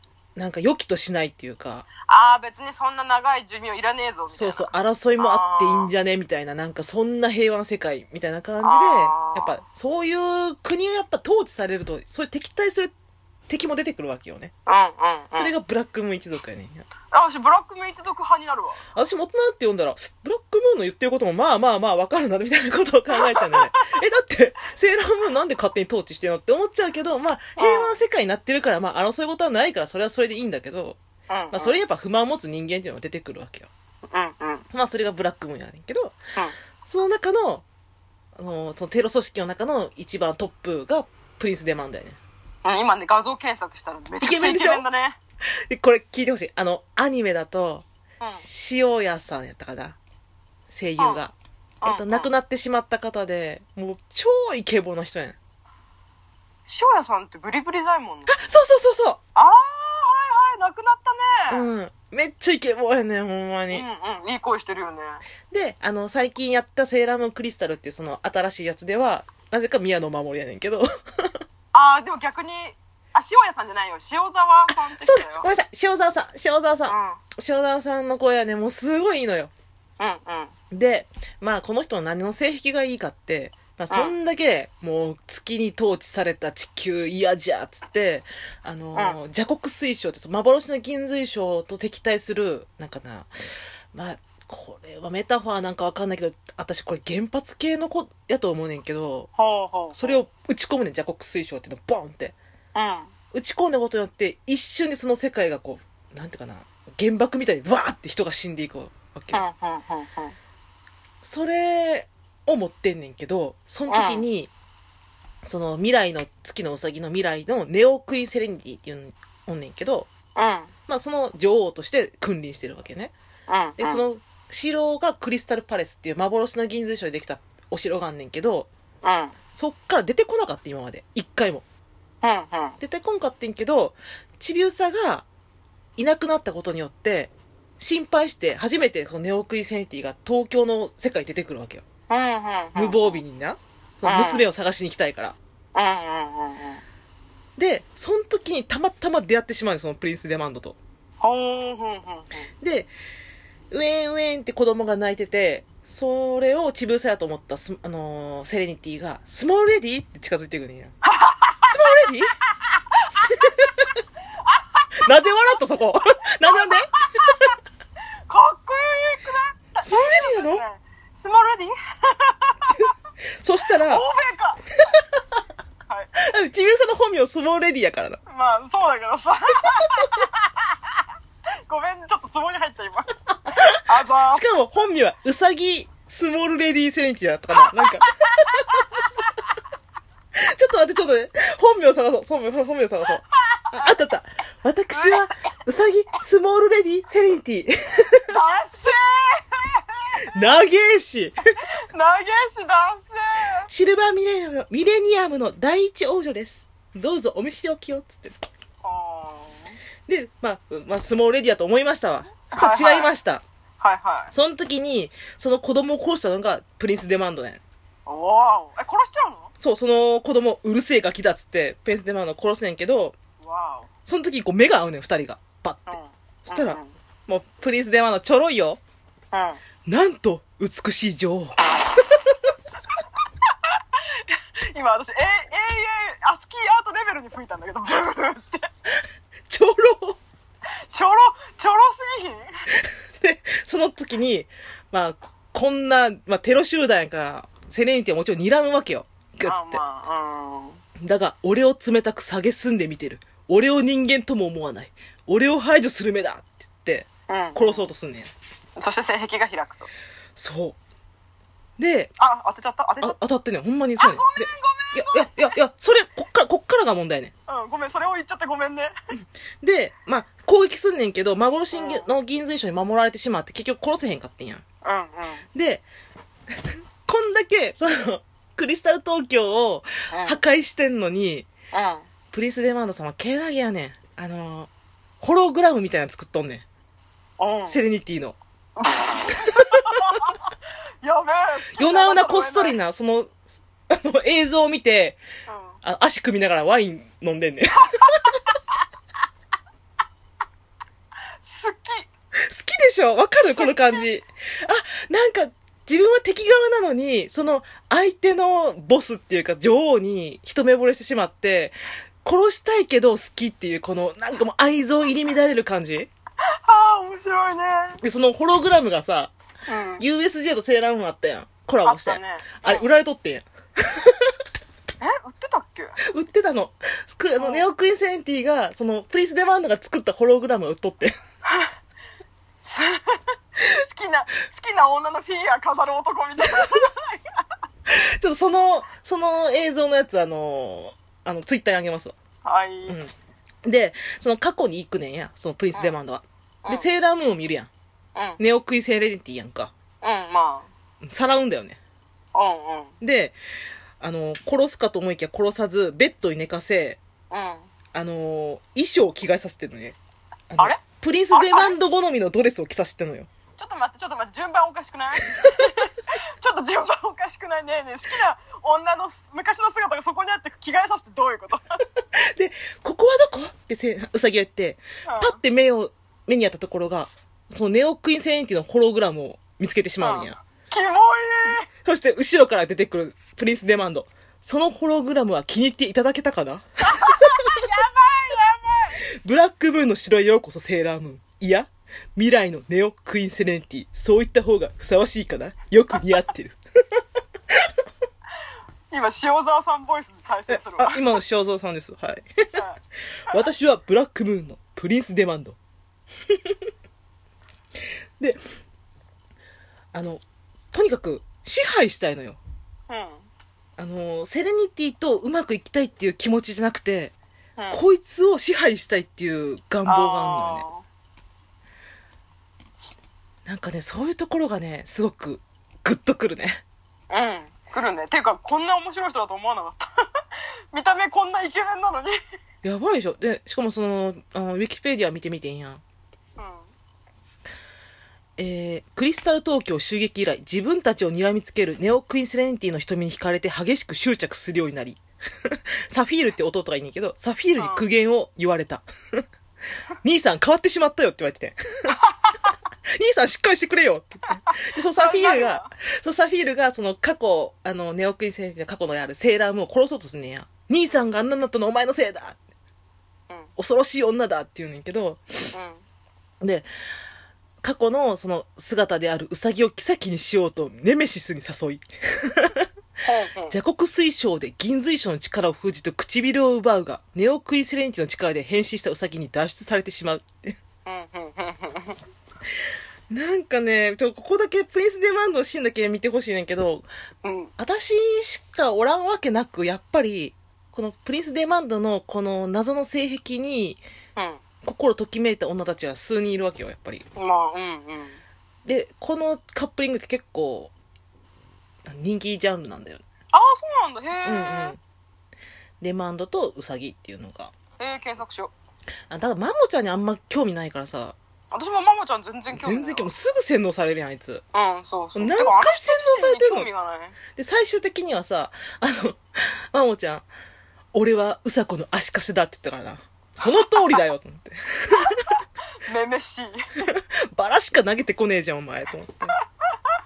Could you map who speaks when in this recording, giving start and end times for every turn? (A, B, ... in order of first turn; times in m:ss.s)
0:00.4-0:01.9 A
0:02.0-0:04.6 B
0:04.3-0:12.9 A
0:05.2-0:05.9 B
0:08.6-0:09.5 B
0:13.5-0:14.5 A
0:14.6-0:15.5 B
0:15.3-0:16.9 A
0:17.1-0:18.8 B
0:18.9-0:31.0 A
0:23.2-0:23.7 B
0:27.6-0:28.0 B
0:31.3-0:31.8 B
0:31.5-0:33.7 A
0:34.1-0:34.6 B
0:34.7-0:36.2 A
0:36.8-0:37.6 A
0:38.4-0:42.2 A
0:42.6-0:45.2 B
0:44.2-0:44.8 A
0:45.7-0:47.8 A
0:48.4-0:50.0 A
0:50.7-0:51.3 A
0:51.0-0:51.2 B
0:51.8-0:52.3 B
0:51.8-0:55.4 A
0:56.6-0:58.3 B
0:58.3-0:59.2 A
0:59.3-1:01.7 B
1:01.5-1:03.8 A
1:03.7-1:05.2 B
1:05.5-1:11.3 A
1:11.7-1:15.5 B
1:14.8-1:19.5 A
1:16.9-1:17.2 B
1:20.0-1:20.5 B
1:20.7-1:33.3 A
1:33.9-1:39.3 A
1:39.4-1:40.2 B
1:40.0-1:42.4 A
1:42.7-1:43.1 B
1:43.3-1:49.4 A
1:49.3-1:50.3 B
1:51.2-1:54.5 A
1:53.9-1:54.3 B
1:55.4-2:00.1 A
2:00.3-2:00.7 B
2:00.9-2:03.1 A
2:03.5-2:04.0 B
2:03.8-2:08.7 A
2:09.0-2:09.3 B
2:09.5-2:11.6 A
2:12.2-2:12.8 B
2:12.8-2:15.2 A
2:16.0-2:21.8 A
2:22.1-2:23.2 B
2:22.7-2:25.4 A
2:24.0-2:24.4 B
2:25.7-2:26.8 B
2:27.6-2:30.8 A
2:31.2-2:32.4 B
2:32.6-2:32.9 A
2:33.7-2:40.9 A
2:41.0-2:41.8 B
2:41.6-2:42.4 A
2:43.3-2:43.9 A
2:44.5-2:44.8 B
2:45.0-2:47.4 A
2:46.4-2:47.4 B
2:48.3-2:52.8 B
2:49.8-2:50.6 A
2:52.7-2:54.0 A
2:53.8-2:54.6 B
2:56.2-2:58.2 A
2:58.3-3:01.0 B
3:01.6-3:03.1 B
3:03.5-3:08.7 A
3:03.8-3:04.4 B
3:10.4-3:18.2 A
3:14.9-3:15.3 B
3:18.3-3:19.8 B
3:20.2-3:21.4 A
3:21.9-3:23.7 B
3:23.7-3:28.4 A
3:28.8-3:29.7 B
3:30.1-3:33.4 A
3:32.5-3:33.1 B
3:33.8-3:34.3 B
3:34.3-3:37.6 A
3:38.1-3:39.5 B
3:39.6-3:43.1 A
3:43.4-3:43.9 B
3:44.0-3:45.9 A
3:45.9-3:46.9 B
3:46.4-3:48.8 A
3:49.3-3:49.6 B
3:49.8-3:51.7 A
3:53.7-3:58.7 B
3:59.5-4:00.2 A
4:00.9-4:02.5 B
4:03.2-4:09.8 A
4:09.4-4:10.8 B
4:11.0-4:18.3 A
4:17.3-4:17.8 B
4:18.8-4:19.9 B
4:20.4-4:20.8 A
4:21.8-4:22.1 A
4:22.2-4:23.2 B
4:23.0-4:27.3 A
4:24.0-4:25.5 B
4:27.5-4:28.9 B
4:29.6-4:34.6 A
4:31.7-4:32.1 B
4:34.8-4:35.4 B
4:35.5-4:35.8 A
4:37.0-4:41.5 A
4:40.1-4:40.4 B
4:41.7-4:42.1 B
4:42.3-4:46.6 A
4:47.4-4:47.8 B
4:47.7-4:48.4 A
4:48.8-4:50.4 B
4:51.0-4:52.8 B
4:51.8-4:53.4 A
4:53.9-4:55.2 A
4:55.5-4:55.8 B
4:55.8-4:57.8 A
5:01.4-5:02.1 B
5:02.5-5:16.1 A
5:03.5-5:04.0 B
5:16.6-5:18.0 B
5:18.0-5:19.3 A
5:19.7-5:20.0 B
5:20.0-5:24.3 A
5:21.8-5:22.8 B
5:25.0-5:26.0 B
5:26.0-5:31.1 A
5:27.4-5:27.7 B
5:32.6-5:37.3 B
5:37.9-5:42.1 A
5:42.4-5:43.0 B
5:42.9-5:43.1 A
5:43.6-5:47.7 A
5:48.4-5:49.7 A
5:50.0-5:50.7 B
5:51.0-5:51.8 A
5:52.3-5:52.9 B
5:53.0-5:53.4 A
5:54.0-5:57.0 A
5:57.3-5:57.7 B
5:57.9-6:00.0 A
6:00.5-6:03.3 A
6:01.3-6:01.7 B
6:03.6-6:11.8 B
6:12.3-6:20.4 A
6:15.0-6:15.4 B
6:20.0-6:21.7 B
6:21.8-6:27.3 A
6:27.0-6:29.0 B
6:29.2-6:36.6 A
6:38.9-6:41.0 B
6:40.5-6:42.4 A
6:42.5-6:42.8 B
6:43.3-6:45.6 A
6:49.9-6:52.4 A
6:52.9-6:53.2 B
6:53.8-6:57.1 A
6:57.7-7:00.6 A
6:59.8-7:00.8 B
7:03.4-7:06.6 A
7:07.1-7:09.8 B
7:10.7-7:12.2 B
7:12.6-7:15.8 A
7:16.4-7:16.7 B
7:18.4-7:29.2 A
7:27.6-7:27.8 B
7:30.0-7:32.0 A
7:33.0-7:42.4 A
7:34.9-7:35.7 B
7:43.6-7:45.5 A
7:45.5-7:45.8 B
7:46.4-7:46.7 A
7:47.6-7:52.6 A
7:53.0-7:53.6 B
7:53.5-8:00.6 A
8:00.8-8:02.0 B
8:03.1-8:06.8 A
8:07.2-8:07.5 B
8:07.6-8:13.8 A
8:14.2-8:14.4 B
8:14.6-8:17.0 A
8:17.2-8:18.2 B
8:18.6-8:20.7 A
8:21.8-8:23.0 A
8:23.3-8:24.8 B
8:24.2-8:24.8 A
8:25.8-8:27.5 A
8:27.8-8:28.5 B
8:29.1-8:31.2 A
8:31.5-8:33.1 B
8:32.5-8:34.4 A
8:34.5-8:37.2 B
8:35.1-8:36.7 A
8:37.3-8:40.2 A
8:40.9-8:45.3 A
8:45.0-8:46.6 B
8:46.8-8:49.4 A